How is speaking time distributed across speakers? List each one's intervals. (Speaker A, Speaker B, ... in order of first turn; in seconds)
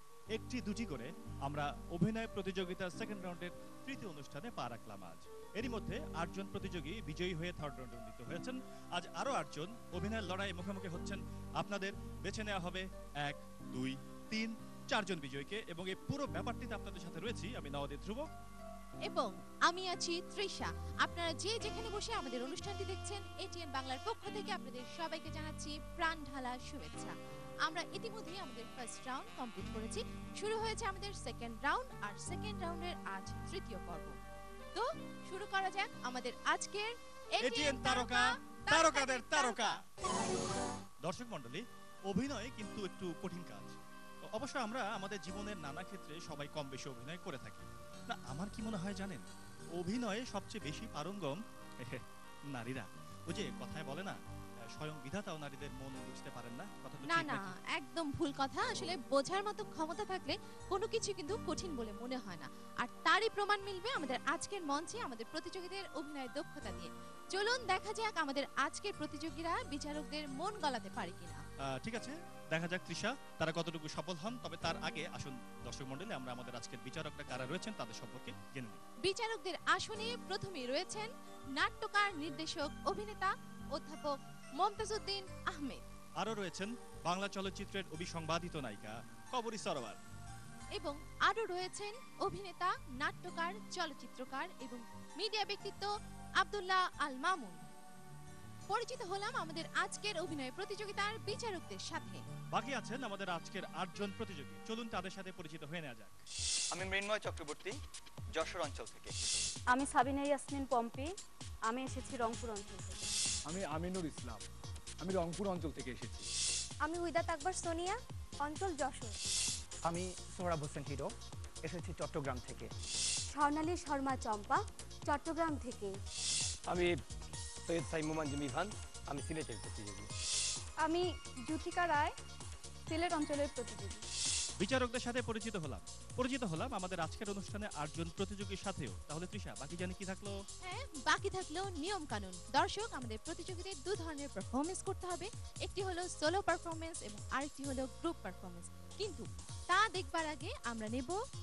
Speaker A: 0.3-18.3, 37.4-39.8, 41.0-43.8, 44.3-54.2, 54.8-57.5, 71.8-78.8, 86.2-90.0, 102.5-106.2, 134.6-140.4
Speaker B: 19.1-27.1, 27.7-34.2, 34.8-39.8, 57.1-71.4, 79.0-85.8, 90.8-95.9, 96.4-97.7, 98.7-102.2, 140.6-151.2
Speaker C: 106.7-107.8, 108.3-109.5
Speaker D: 109.7-111.1, 111.7-113.1
Speaker E: 113.5-114.4, 115.0-116.3
Speaker F: 116.8-119.2, 123.3-126.0, 130.8-132.2, 132.9-134.0
Speaker G: 119.9-121.1, 121.7-122.7
Speaker H: 127.7-130.1